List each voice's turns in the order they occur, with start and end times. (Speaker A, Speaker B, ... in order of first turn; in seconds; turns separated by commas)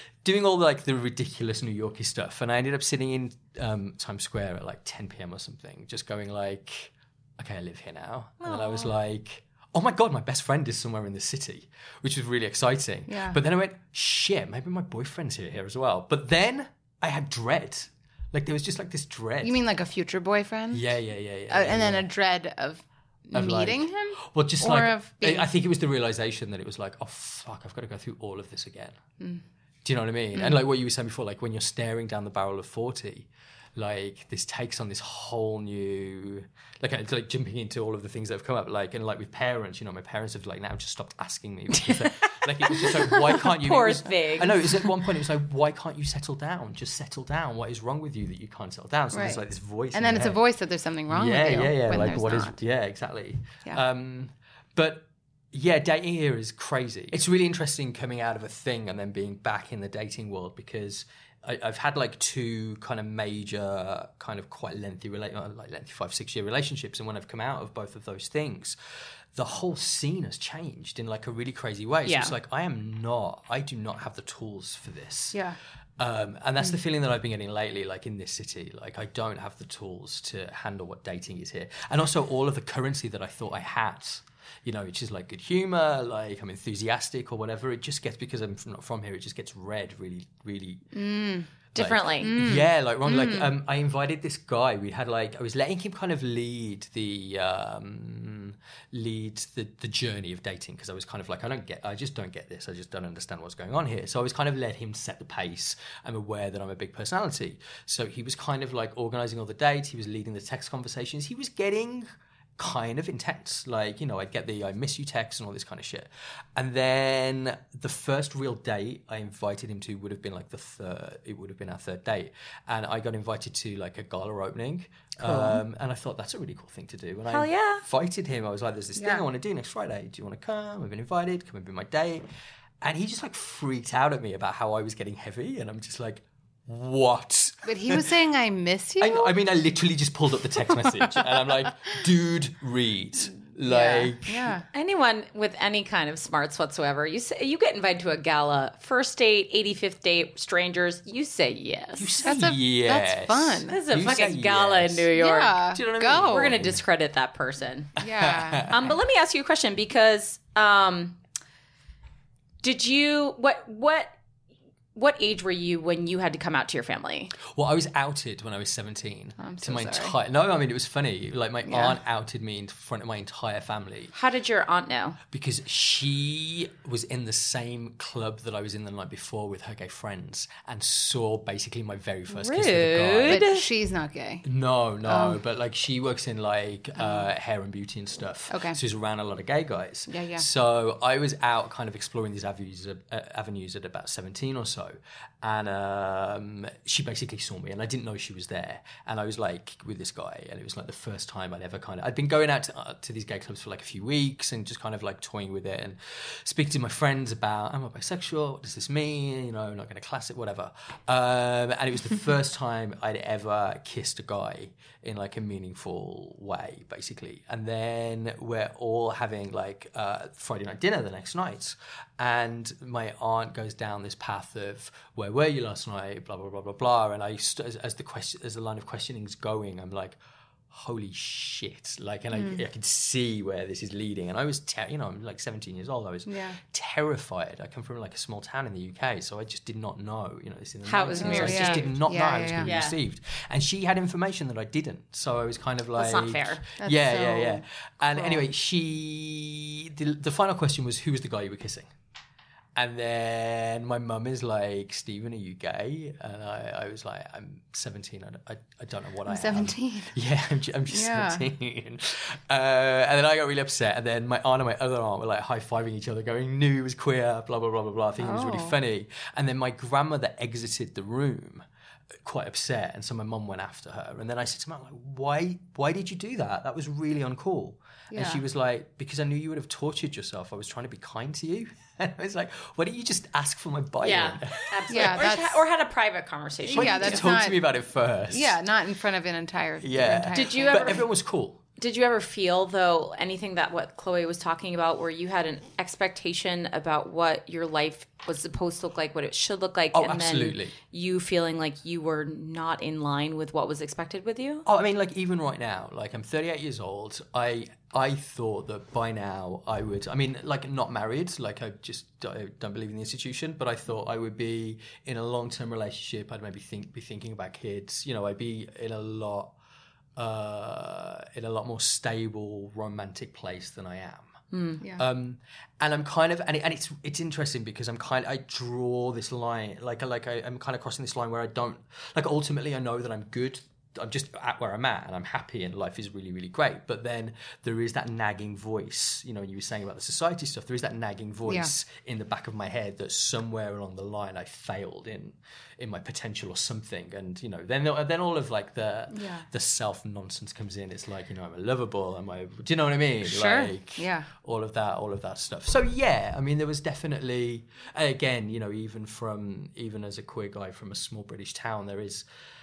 Speaker A: 0.2-19.6, Speaker B: 8.4-8.9, Speaker C: 13.1-13.4, Speaker C: 19.4-20.9, Speaker A: 20.7-22.1, Speaker C: 21.5-25.5, Speaker A: 23.3-29.0, Speaker A: 29.9-50.4, Speaker B: 42.7-44.6, Speaker C: 49.1-49.4, Speaker C: 49.9-52.6, Speaker A: 51.1-68.8, Speaker A: 69.3-91.0, Speaker B: 72.0-72.3, Speaker C: 91.0-91.5, Speaker B: 91.8-92.4, Speaker A: 91.8-132.2, Speaker C: 92.2-93.5, Speaker B: 125.2-125.6, Speaker B: 127.3-127.8, Speaker C: 129.0-129.2, Speaker A: 132.8-138.1, Speaker C: 137.7-139.3, Speaker A: 139.0-144.6, Speaker C: 140.8-141.2, Speaker C: 143.7-144.7, Speaker B: 144.7-152.2, Speaker A: 152.0-155.1, Speaker C: 152.2-153.8, Speaker B: 153.7-155.6, Speaker C: 155.1-156.6, Speaker A: 155.7-156.8, Speaker B: 156.3-158.0, Speaker C: 158.0-159.0, Speaker A: 158.2-158.8, Speaker B: 158.7-161.2, Speaker B: 162.6-164.2, Speaker B: 164.9-167.3, Speaker A: 167.5-174.1, Speaker C: 169.4-170.2, Speaker C: 171.7-172.0, Speaker B: 174.1-175.2, Speaker A: 175.3-183.5, Speaker B: 182.3-183.6, Speaker C: 183.3-184.4, Speaker A: 184.4-230.2, Speaker C: 185.0-185.4, Speaker C: 187.0-187.3, Speaker C: 188.5-188.8, Speaker C: 190.1-190.4, Speaker A: 230.7-251.9, Speaker C: 232.3-232.6, Speaker C: 236.3-236.6, Speaker B: 240.8-241.9, Speaker C: 241.2-242.7, Speaker B: 242.6-243.0, Speaker B: 246.0-246.6, Speaker C: 246.8-248.5, Speaker A: 252.8-271.6, Speaker C: 259.3-260.1, Speaker C: 260.9-261.4, Speaker C: 268.2-268.8, Speaker A: 272.2-285.3, Speaker C: 278.1-278.4, Speaker B: 284.0-287.3, Speaker C: 284.9-285.6, Speaker A: 286.7-288.6, Speaker C: 286.7-287.6, Speaker C: 288.3-291.1, Speaker A: 289.8-291.6, Speaker B: 290.3-291.1, Speaker B: 291.8-304.6, Speaker A: 299.9-300.8, Speaker A: 304.7-319.5, Speaker A: 320.2-362.2, Speaker B: 324.5-324.8, Speaker C: 349.1-349.5, Speaker C: 353.2-354.3